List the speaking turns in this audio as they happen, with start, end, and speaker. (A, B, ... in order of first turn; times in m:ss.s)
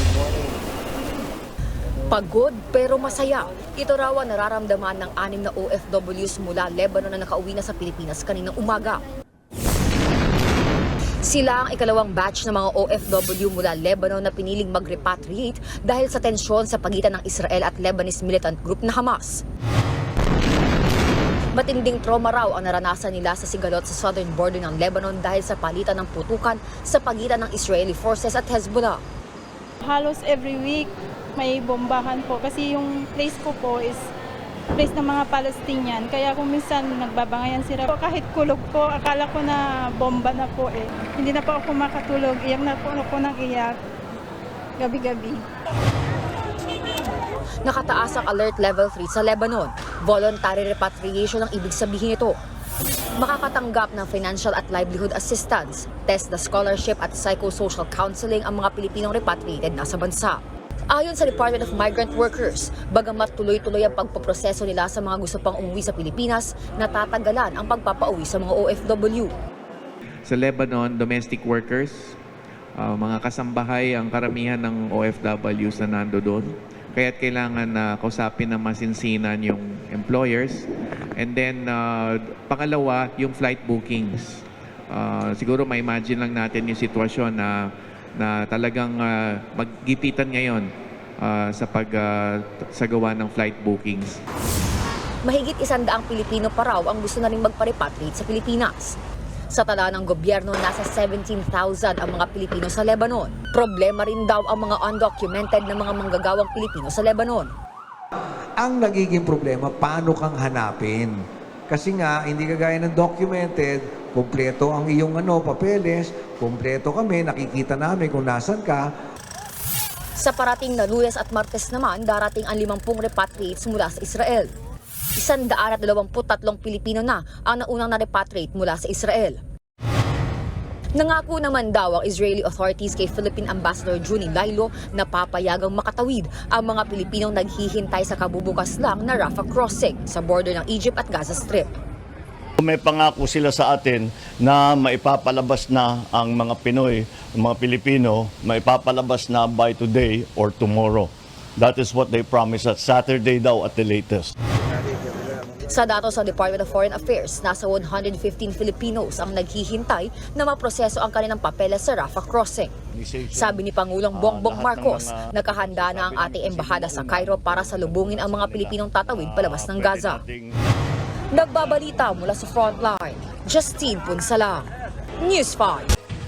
0:02.1-0:09.0 A
0:11.2-0:19.4 A
0:21.5-0:29.0 A
0:29.8-0:34.0 B
0:34.7-0:43.7 B
0:44.8-0:45.4 B
0:47.6-0:52.4 A
0:53.2-1:09.3 A
1:10.2-1:12.2 C
1:12.8-1:34.2 C
1:35.2-1:39.0 A
1:39.5-1:47.5 A
1:48.6-1:51.2 D
1:51.7-1:58.9 D
2:00.2-2:04.5 A
2:05.2-2:09.4 A
2:11.0-2:21.7 A
2:22.6-2:34.3 E
2:35.7-2:42.7 A
2:42.9-2:50.6 E
2:43.3-2:50.2 A
2:51.3-2:54.7 A
2:55.2-2:55.9 A